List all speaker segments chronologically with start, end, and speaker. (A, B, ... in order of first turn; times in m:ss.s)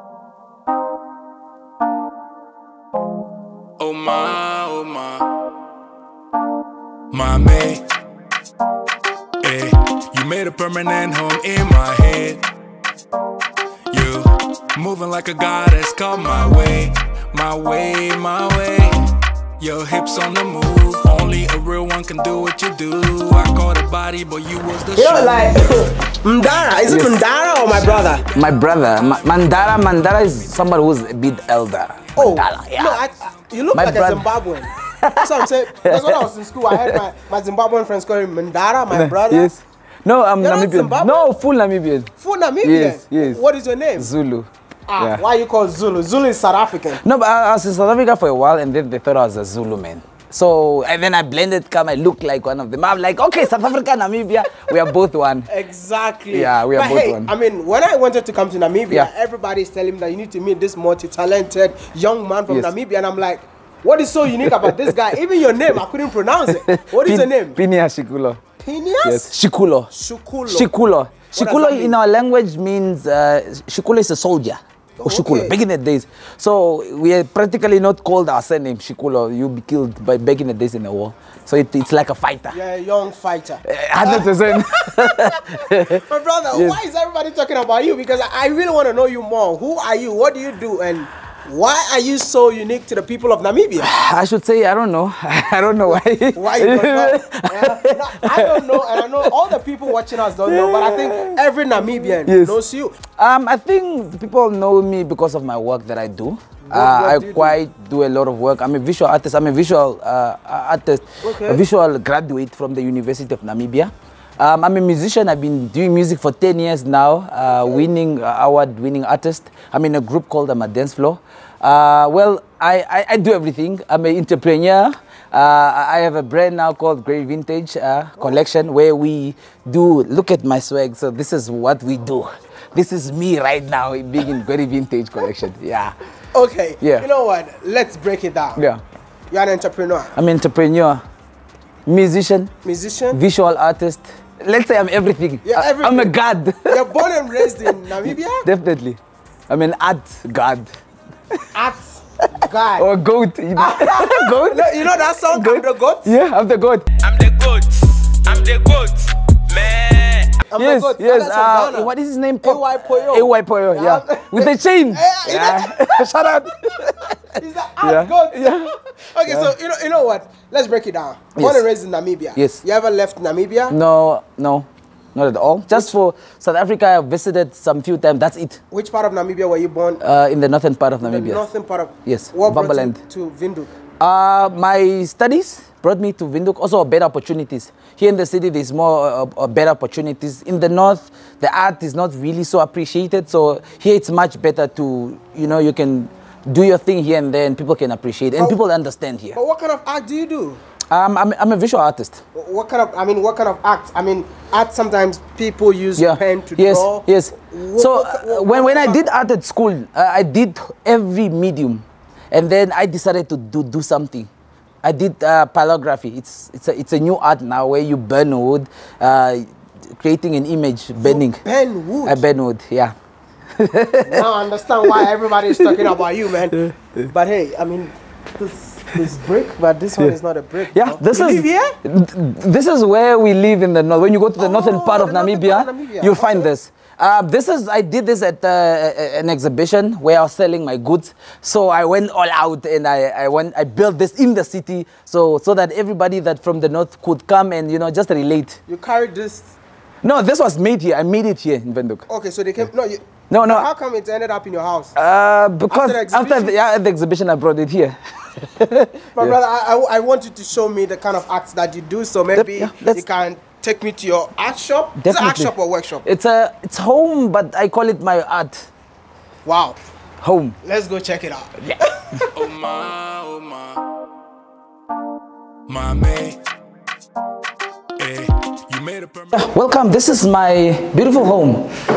0:03.8-0:05.3 A
0:07.1-0:07.8 A
0:09.4-0:12.5 A
0:13.9-0:30.5 A
0:25.0-0:28.2 B
0:26.9-0:27.2 C
0:28.3-0:33.0 C
0:32.2-0:39.5 B
0:33.7-0:34.3 C
0:34.8-0:37.0 C
0:38.9-0:42.1 C
0:40.4-0:41.3 B
0:42.2-0:44.1 B
0:42.6-0:43.4 C
0:44.0-0:45.2 C
0:44.9-0:47.0 B
0:47.0-0:55.5 C
0:55.5-1:07.6 B
0:56.3-0:57.3 C
1:06.5-1:08.4 C
1:08.6-1:09.3 B
1:09.0-1:09.9 C
1:09.9-1:10.7 B
1:10.5-1:22.6 C
1:11.3-1:12.0 B
1:15.0-1:15.6 B
1:22.5-1:33.9 B
1:23.6-1:26.8 C
1:33.8-1:39.4 C
1:35.9-1:43.0 B
1:40.4-1:42.6 C
1:43.1-2:16.0 C
1:46.6-1:47.6 B
1:51.2-1:51.6 B
2:16.3-2:18.6 B
2:16.8-2:17.1 C
2:18.6-2:18.8 C
2:19.3-2:20.1 B
2:20.2-2:21.0 C
2:21.9-2:22.5 C
2:22.6-2:23.2 B
2:23.1-2:26.8 C
2:25.4-2:28.5 B
2:27.4-2:30.7 C
2:31.5-2:32.9 B
2:32.8-2:36.9 C
2:33.6-2:36.2 B
2:37.0-2:40.4 A
2:40.5-2:41.9 B
2:40.6-2:48.7 C
2:42.4-2:46.1 B
2:47.2-2:53.8 B
2:49.3-2:49.5 C
2:51.4-2:51.6 C
2:52.4-2:52.6 C
2:53.7-2:58.6 C
2:58.7-3:00.0 B
3:00.0-3:01.4 C
3:01.0-3:03.7 B
3:02.0-3:03.0 C
3:04.0-3:19.4 C
3:19.3-3:20.6 B
3:20.9-3:22.2 C
3:22.3-3:29.0 B
3:26.0-3:34.3 C
3:34.8-3:41.4 C
3:41.0-3:42.2 B
3:42.0-3:43.0 C
3:43.6-3:44.3 C
3:44.1-3:51.8 B
3:46.5-3:47.1 C
3:50.7-4:08.6 C
3:54.4-3:56.5 B
4:08.7-4:09.5 B
4:10.0-4:12.1 C
4:12.1-4:14.9 B
4:13.3-4:13.7 C
4:15.0-4:19.4 C
4:15.7-4:16.6 B
4:19.2-4:26.1 B
4:22.3-4:23.0 C
4:25.0-4:28.7 C
4:29.4-4:29.8 B
4:30.2-4:30.6 C
4:30.6-4:32.0 B
4:32.3-4:33.8 A
4:35.7-4:36.4 A
4:38.0-4:39.5 A
4:39.3-4:41.8 C